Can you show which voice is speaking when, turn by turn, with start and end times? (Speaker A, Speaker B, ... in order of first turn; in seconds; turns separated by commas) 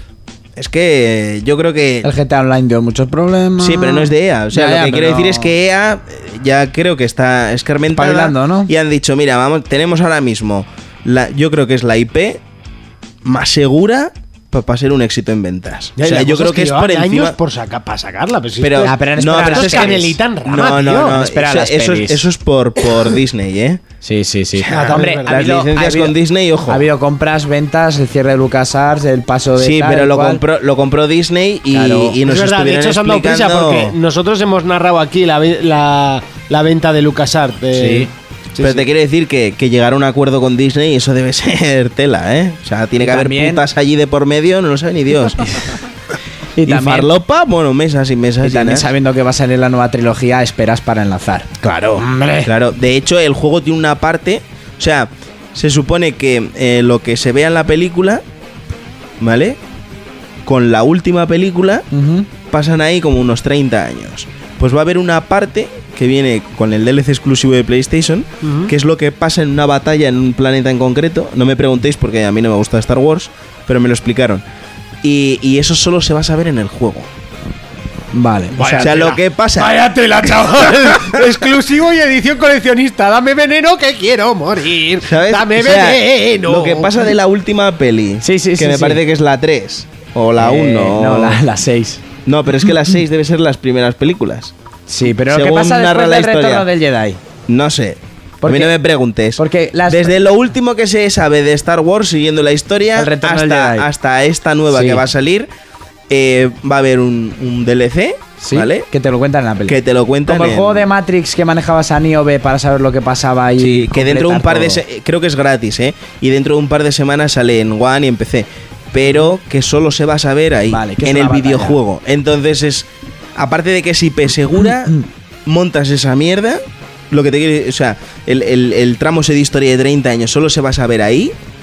Speaker A: 0.6-2.1, Speaker B: 2.0-5.5, Speaker A: 3.6-12.4, Speaker B: 7.9-8.7, Speaker A: 13.2-17.4, Speaker C: 16.0-21.2, Speaker A: 18.6-23.8, Speaker B: 18.8-20.1, Speaker B: 21.1-22.3, Speaker B: 24.0-30.4, Speaker C: 24.6-25.5, Speaker A: 24.6-26.9, Speaker A: 29.6-34.0, Speaker B: 31.7-32.2, Speaker C: 32.2-38.8, Speaker B: 37.7-38.1, Speaker A: 38.6-45.8, Speaker B: 43.0-43.6, Speaker B: 46.6-47.1, Speaker A: 46.6-48.9, Speaker B: 48.4-52.5, Speaker A: 51.6-58.2, Speaker A: 59.2-59.6, Speaker A: 60.4-61.9, Speaker B: 61.9-62.3, Speaker A: 62.5-74.4, Speaker C: 68.4-68.7, Speaker A: 75.0-77.1, Speaker B: 78.1-78.9, Speaker C: 78.5-87.0, Speaker A: 78.6-79.8, Speaker A: 85.0-91.4, Speaker B: 88.2-89.0, Speaker B: 90.4-92.0, Speaker A: 92.2-94.5, Speaker B: 94.9-97.2, Speaker A: 95.3-96.7, Speaker A: 97.5-105.5, Speaker B: 98.4-98.7, Speaker B: 99.3-100.1, Speaker B: 103.0-103.9, Speaker B: 104.7-105.0, Speaker A: 106.1-108.9, Speaker B: 108.4-114.8, Speaker A: 109.7-110.9, Speaker A: 113.6-131.3, Speaker B: 120.7-121.8, Speaker B: 124.6-125.0